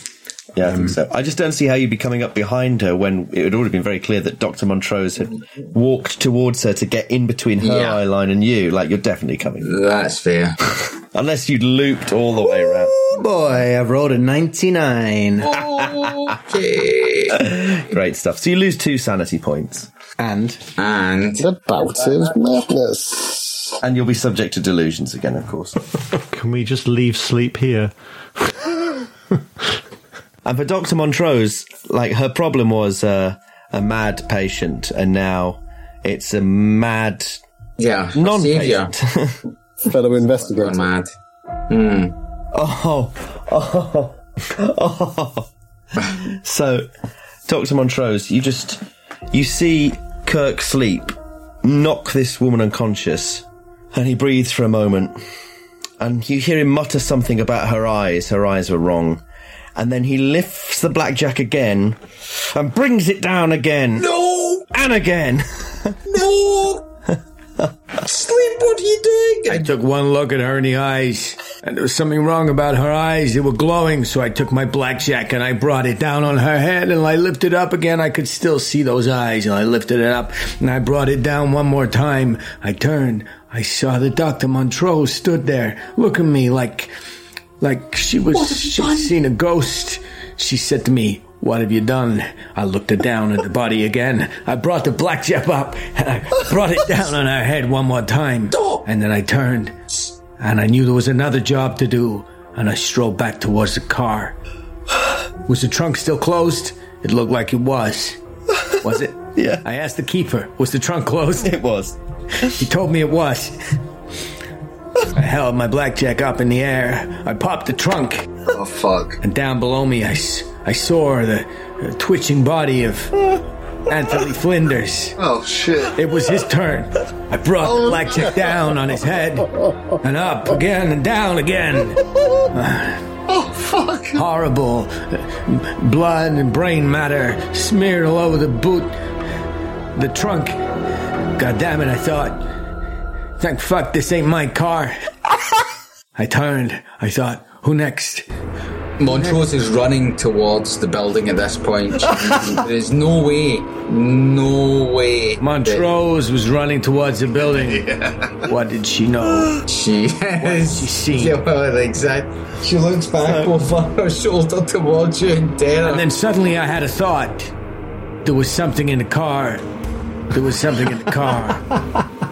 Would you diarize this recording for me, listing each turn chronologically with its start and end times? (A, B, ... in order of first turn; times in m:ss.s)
0:00.5-0:09.7 A
0:00.6-0:01.0 B
0:07.6-0:08.0 C
0:09.6-0:10.6 C
0:10.8-0:13.0 A
0:13.1-0:15.6 B
0:15.4-0:17.6 C
0:15.6-0:16.3 A
0:17.3-0:19.9 A
0:20.2-0:20.6 B
0:20.8-0:21.5 C
0:21.4-0:23.8 D
0:23.8-0:25.8 A
0:26.3-0:28.7 E
0:30.4-0:37.4 A
0:37.8-0:38.9 C
0:38.1-0:39.4 A
0:39.9-0:40.9 D
0:40.3-0:41.1 C
0:41.7-0:42.1 C
0:42.5-0:46.9 A
0:47.4-0:55.2 A
0:56.0-0:59.2 A
0:59.8-1:04.1 A
1:04.0-1:04.7 C
1:04.7-1:06.0 A
1:06.0-1:06.8 C
1:08.0-1:09.7 C
1:09.5-1:26.9 B
1:27.6-1:44.4 B
1:28.3-1:29.1 C
1:38.5-1:38.8 C
1:45.4-1:48.2 B
1:48.8-1:51.5 B
1:49.3-1:49.6 A
1:51.4-1:52.6 A
1:52.6-1:53.8 B
1:55.1-1:58.4 B
1:58.5-1:59.2 F
1:59.2-2:03.3 B
2:03.9-2:05.2 B
2:05.2-2:06.0 F
2:05.9-2:13.1 B
2:13.3-2:14.2 F
2:14.1-2:19.0 B
2:19.9-2:20.6 B
2:21.4-2:22.4 B
2:23.4-2:25.1 B
2:26.2-2:28.2 B
2:29.0-2:35.8 C
2:35.4-2:37.9 B
2:37.4-2:38.4 F
2:38.4-2:39.6 B
2:39.6-2:46.1 C
2:40.4-2:41.4 B
2:43.2-2:43.5 A
2:45.8-2:47.5 B
2:48.2-2:49.6 B
2:50.3-2:51.8 B